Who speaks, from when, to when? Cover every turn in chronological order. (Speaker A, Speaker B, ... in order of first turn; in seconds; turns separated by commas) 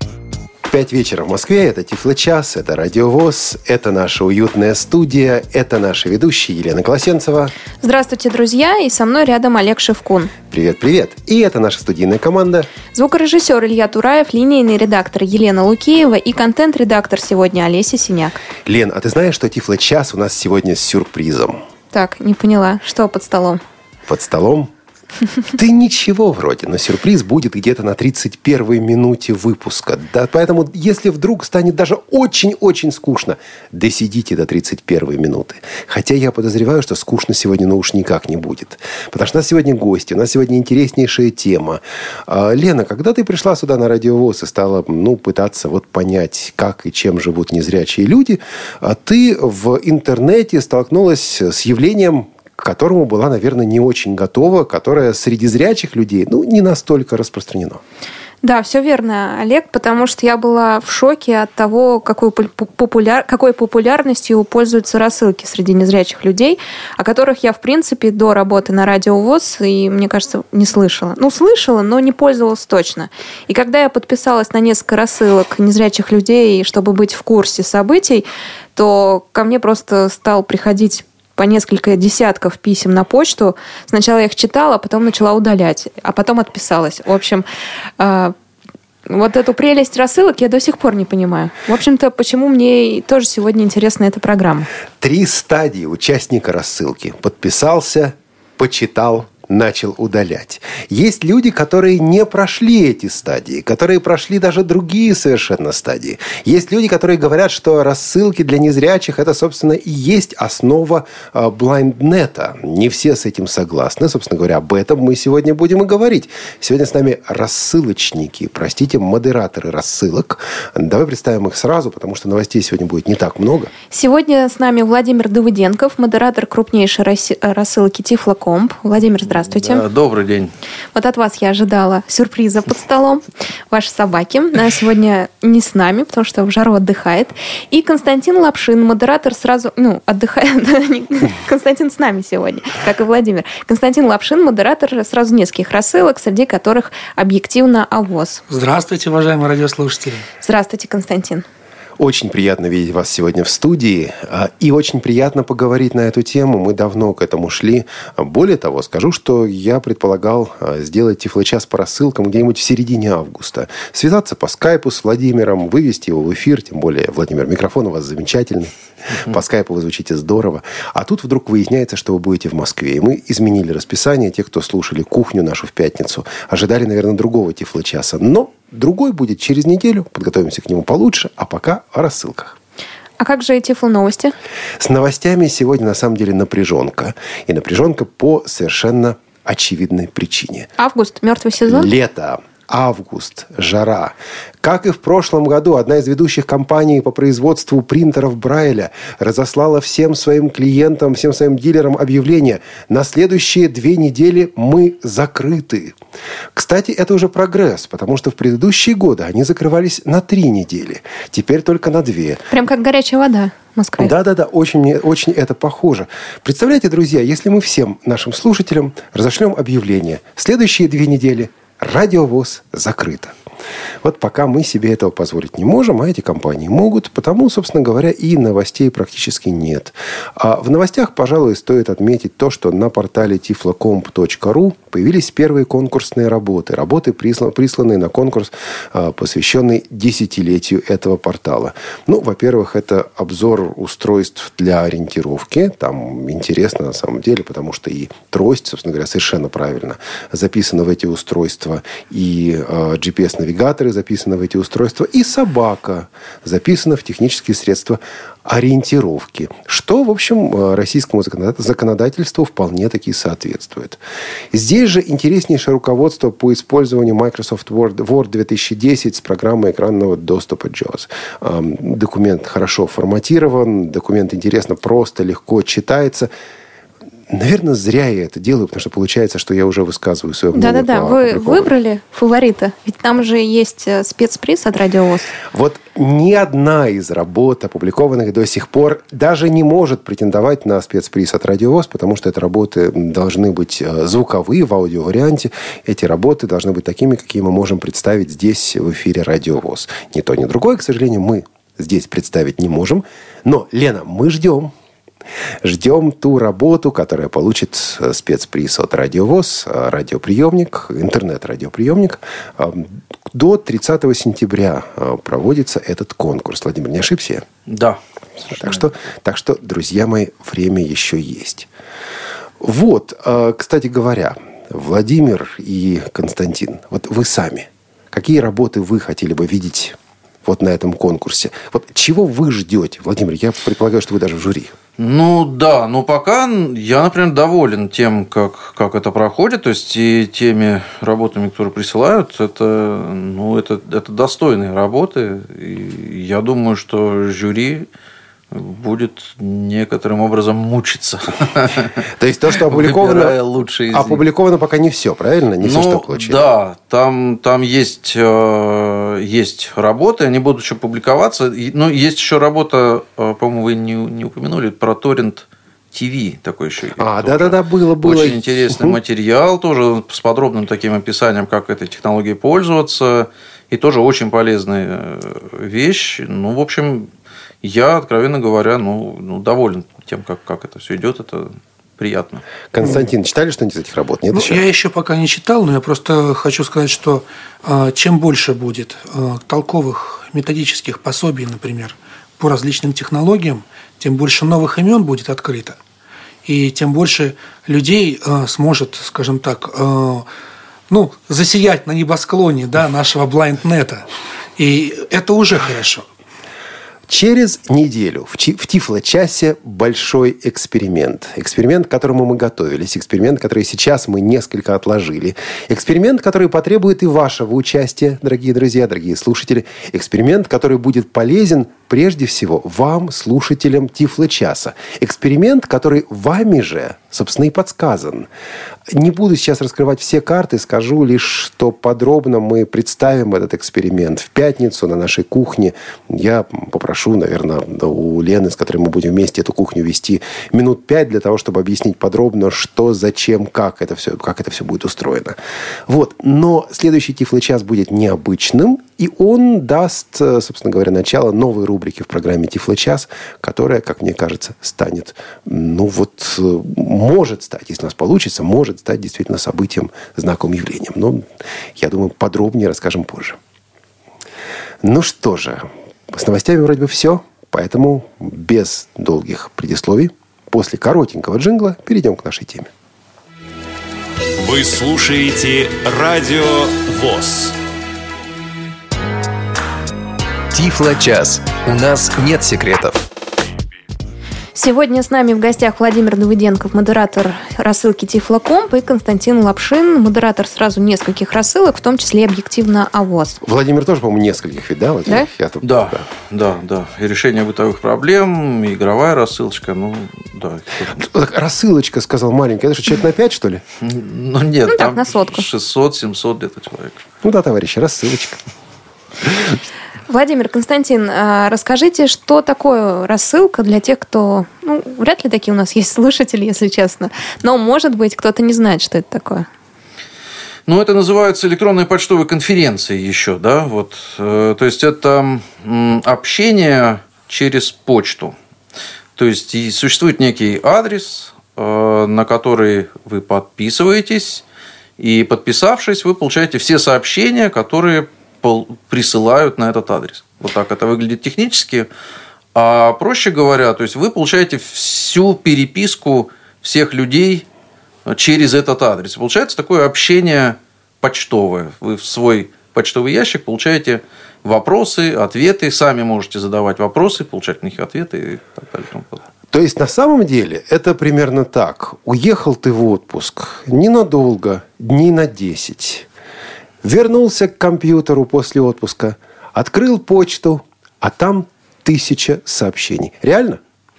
Speaker A: 0.7-7.5, Speaker B: 7.8-10.3, Speaker A: 10.5-12.7, Speaker B: 12.9-18.4, Speaker A: 18.6-21.6, Speaker B: 21.9-23.6, Speaker A: 24.1-24.7, Speaker A: 25.5-57.8, Speaker B: 58.4-87.5, Speaker B: 88.0-88.3, Speaker B: 89.1-94.7, Speaker A: 95.0-123.7, Speaker B: 123.9-129.8, Speaker C: 129.3-130.5, Speaker B: 130.9-148.4, Speaker D: 148.5-150.2, Speaker B: 150.4-151.4, Speaker A: 152.0-182.6, Speaker B: 183.2-184.3, Speaker A: 184.8-190.7, Speaker B: 190.8-191.9, Speaker A: 191.7-205.9, Speaker A: 206.5-212.4, Speaker B: 212.5-214.1, Speaker A: 214.0-223.3, Speaker A: 224.0-264.0, Speaker A: 264.5-276.3, Speaker A: 277.3-281.7, Speaker B: 280.5-285.3, Speaker A: 285.5-304.7, Speaker A: 305.6-317.4, Speaker C: 317.7-318.9, Speaker A: 318.5-321.7, Speaker A: 322.6-334.7, Speaker C: 335.0-347.9, Speaker C: 348.5-352.0, Speaker A: 352.2-353.4, Speaker C: 352.7-354.2, Speaker A: 353.9-356.4, Speaker C: 355.6-377.1, Speaker A: 367.0-369.0, Speaker C: 377.6-382.4, Speaker A: 382.7-384.6, Speaker D: 382.8-383.1, Speaker D: 384.3-395.8, Speaker D: 396.4-400.3, Speaker D: 400.9-406.1, Speaker A: 407.1-428.3, Speaker A: 428.9-463.4, Speaker A: 464.8-472.7, Speaker E: 474.4-477.6, Speaker F: 480.5-483.0, Speaker B: 484.5-493.4, Speaker A: 493.4-496.0, Speaker C: 495.6-501.0, Speaker A: 500.9-503.6, Speaker C: 503.8-507.0, Speaker B: 504.7-505.5, Speaker A: 507.2-508.4, Speaker B: 510.1-519.5, Speaker C: 520.7-528.3, Speaker C: 529.2-534.4, Speaker C: 535.0-541.9, Speaker C: 542.5-547.4, Speaker C: 548.1-559.2, Speaker A: 559.5-566.0, Speaker A: 566.8-573.6